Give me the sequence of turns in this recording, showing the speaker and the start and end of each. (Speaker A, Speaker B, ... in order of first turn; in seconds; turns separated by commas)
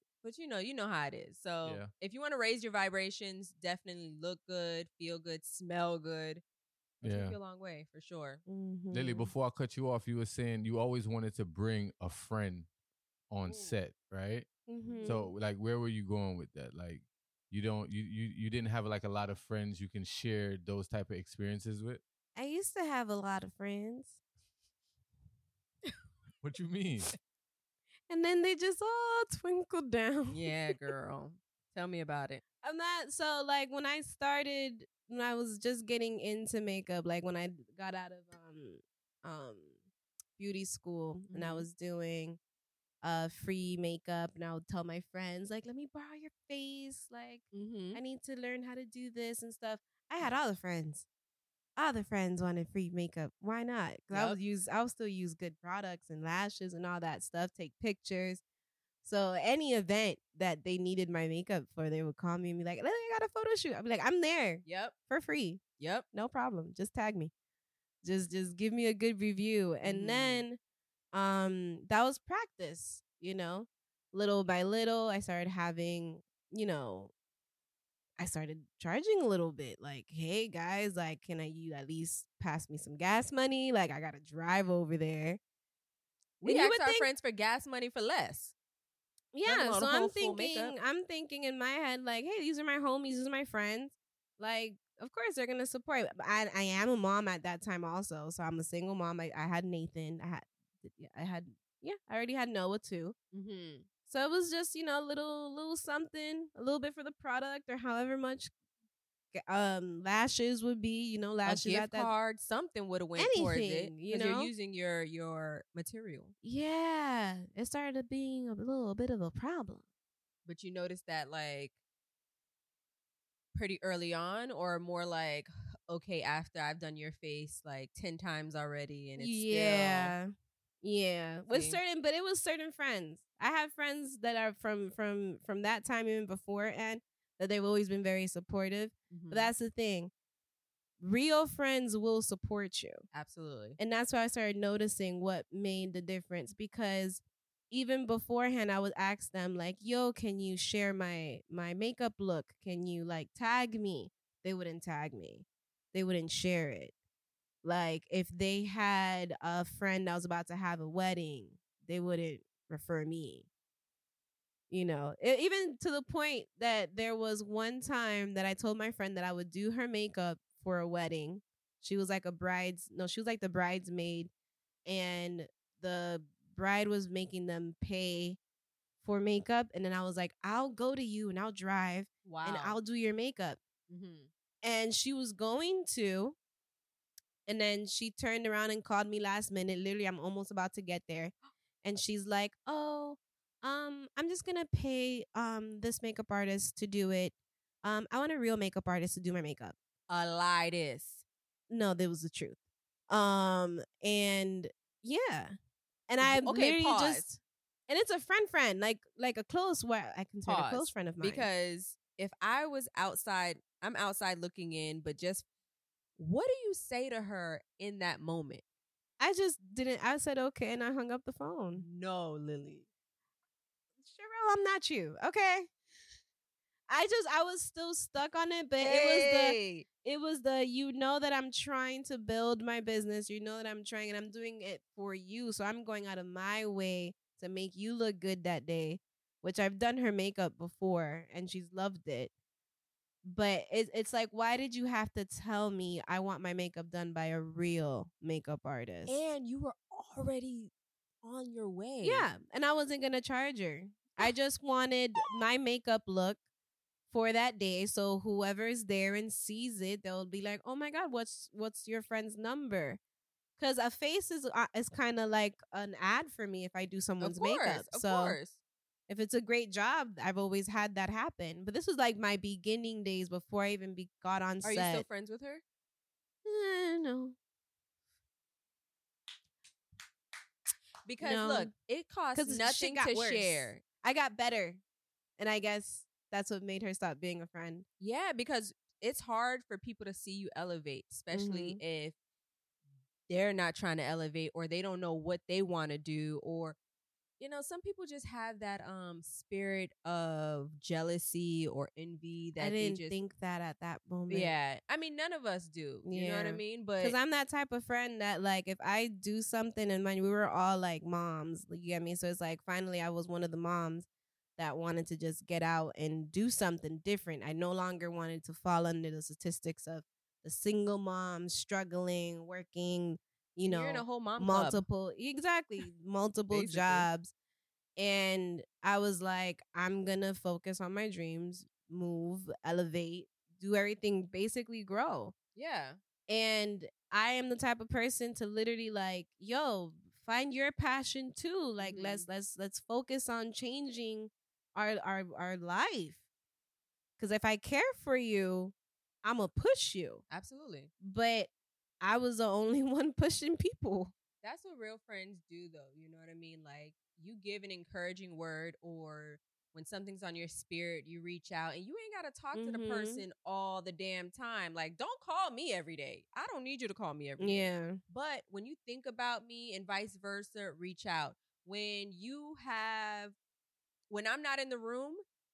Speaker A: 0.2-6.4, Speaker B: 1.6-1.9, Speaker B: 7.0-7.4, Speaker A: 7.0-8.4, Speaker C: 8.5-9.3, Speaker B: 8.9-12.7, Speaker B: 13.3-14.5, Speaker A: 13.4-13.8, Speaker C: 14.7-15.3, Speaker A: 14.8-15.2, Speaker B: 15.0-22.0, Speaker C: 22.4-24.2, Speaker B: 26.4-27.1, Speaker C: 28.1-30.5, Speaker A: 30.3-32.4, Speaker C: 32.6-39.8, Speaker C: 40.4-42.4, Speaker A: 41.3-41.7, Speaker C: 43.0-51.0, Speaker A: 47.5-48.0, Speaker C: 51.8-58.4, Speaker A: 54.1-54.4, Speaker C: 59.0-65.6, Speaker A: 64.6-64.9, Speaker A: 65.8-66.0, Speaker C: 66.1-67.3, Speaker C: 68.0-70.6, Speaker A: 69.8-70.4, Speaker C: 71.1-77.1, Speaker C: 78.2-85.4, Speaker A: 86.4-88.5, Speaker C: 86.4-87.1, Speaker C: 89.3-103.1, Speaker A: 89.4-90.7, Speaker A: 103.3-103.9, Speaker C: 104.1-108.5, Speaker C: 109.3-112.1, Speaker A: 111.4-116.3, Speaker C: 113.2-114.5, Speaker C: 116.4-119.8, Speaker A: 120.4-121.7, Speaker A: 123.5-130.2, Speaker C: 129.2-140.1, Speaker A: 131.5-131.8, Speaker A: 139.1-139.5, Speaker C: 141.0-143.0, Speaker A: 143.1-143.8, Speaker C: 143.8-156.9, Speaker C: 157.6-163.5, Speaker C: 164.7-174.3, Speaker C: 174.8-178.4, Speaker C: 179.0-183.6, Speaker A: 182.2-182.8, Speaker A: 183.9-184.3, Speaker C: 184.6-186.3, Speaker C: 187.4-199.8, Speaker A: 200.1-201.2, Speaker C: 201.7-202.6, Speaker C: 203.1-205.5, Speaker C: 206.1-211.5, Speaker A: 206.2-207.3, Speaker A: 210.4-215.4, Speaker A: 216.2-218.6, Speaker C: 219.2-221.8, Speaker A: 221.8-222.8, Speaker C: 224.0-225.7, Speaker C: 226.9-242.3, Speaker A: 228.8-229.8, Speaker C: 243.2-249.2, Speaker A: 249.1-250.7, Speaker A: 251.2-252.3, Speaker C: 252.0-256.4, Speaker C: 257.1-263.0, Speaker C: 263.6-268.4, Speaker A: 267.2-268.6, Speaker C: 269.1-275.1, Speaker A: 274.6-275.6, Speaker C: 276.4-277.4, Speaker A: 281.1-283.8, Speaker C: 281.2-281.7, Speaker C: 282.3-284.8, Speaker C: 285.4-287.9, Speaker A: 288.0-292.1, Speaker C: 291.3-291.8, Speaker A: 293.3-296.8, Speaker A: 297.4-303.2, Speaker C: 302.6-304.5, Speaker A: 304.3-307.1, Speaker C: 306.0-327.3, Speaker A: 323.6-324.8, Speaker A: 326.5-327.1, Speaker C: 328.0-335.3, Speaker A: 335.6-336.0, Speaker C: 336.3-346.2, Speaker A: 341.8-342.3, Speaker C: 347.2-350.2, Speaker A: 350.3-350.9, Speaker C: 351.0-354.1, Speaker A: 354.4-373.4, Speaker C: 362.5-363.2, Speaker C: 367.4-368.0, Speaker A: 374.1-375.2